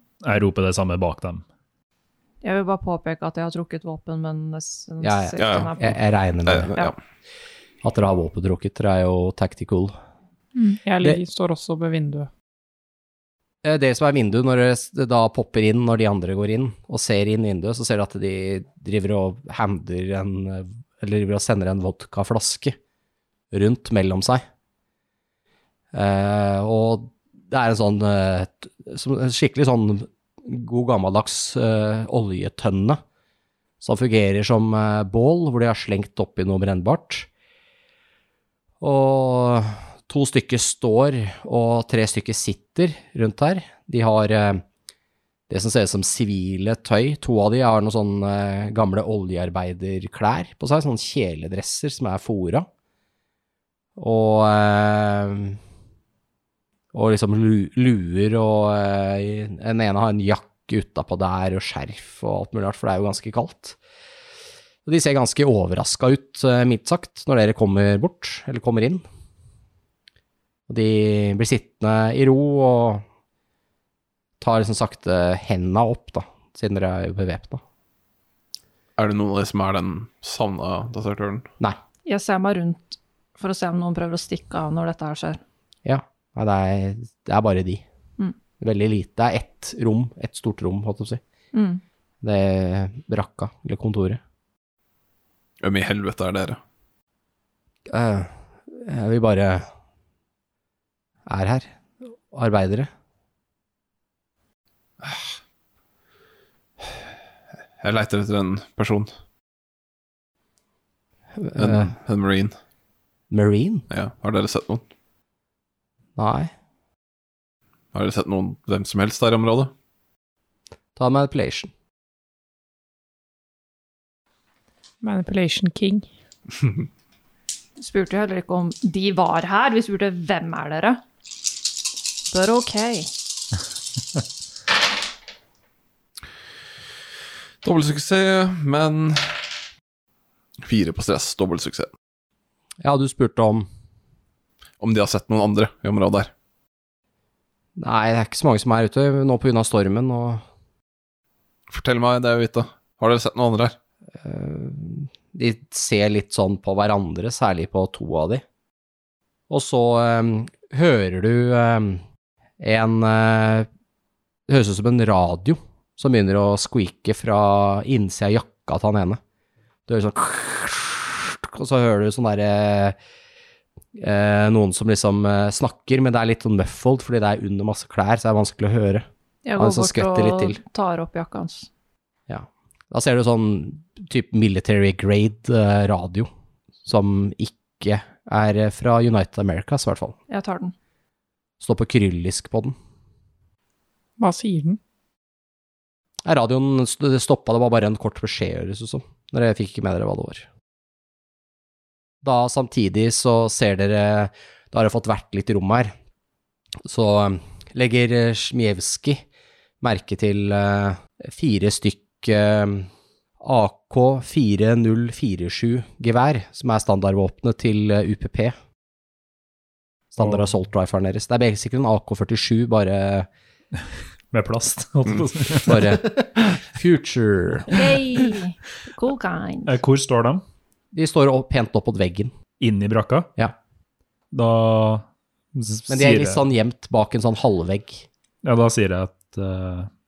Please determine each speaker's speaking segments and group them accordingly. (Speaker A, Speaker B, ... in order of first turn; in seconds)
Speaker A: 0.2-1.4, 224.3-226.1, 229.7-230.4, 232.6-233.3, 234.3-236.4, 238.4-239.9
Speaker B: 2.4-6.0, 82.0-85.4, 91.5-91.8, 127.8-131.0, 132.3-133.1, 179.4-181.7, 190.3-190.7, 227.7-229.8
Speaker C: 5.0-6.9, 7.8-9.9, 13.6-22.8, 23.5-24.4, 25.9-33.0, 33.8-37.3, 38.8-44.6, 45.5-52.7, 54.0-55.6, 56.9-63.8, 64.8-69.0, 70.7-73.0, 74.4-77.6, 85.8-87.8, 88.6-91.2, 92.2-94.2, 97.9-99.7, 101.2-101.7, 102.3-102.9, 111.4-111.9, 113.3-113.8, 116.2-116.5, 121.0-121.7, 142.8-143.7, 147.8-150.4, 154.2-158.4, 159.5-162.0, 162.6-163.7, 164.5-169.2, 169.9-172.9, 173.9-179.0, 179.6-180.6, 182.3-186.3, 186.8-190.2, 191.6-192.7, 196.2-200.4, 202.2-205.9, 206.8-209.2, 209.8-212.9, 213.4-218.6, 220.1-223.3, 225.6-227.8, 230.9-232.3, 235.9-238.1
Speaker D: 5.4-5.7, 6.5-7.0, 79.0-81.5, 95.6-96.6, 105.0-105.3, 106.8-107.1, 107.8-109.1, 111.5-112.5, 113.9-114.8, 117.9-119.7, 137.6-139.5, 140.6-141.9, 144.8-146.3, 151.7-153.8
Speaker E: 10.6-12.3, 125.0-126.1, 194.2-194.8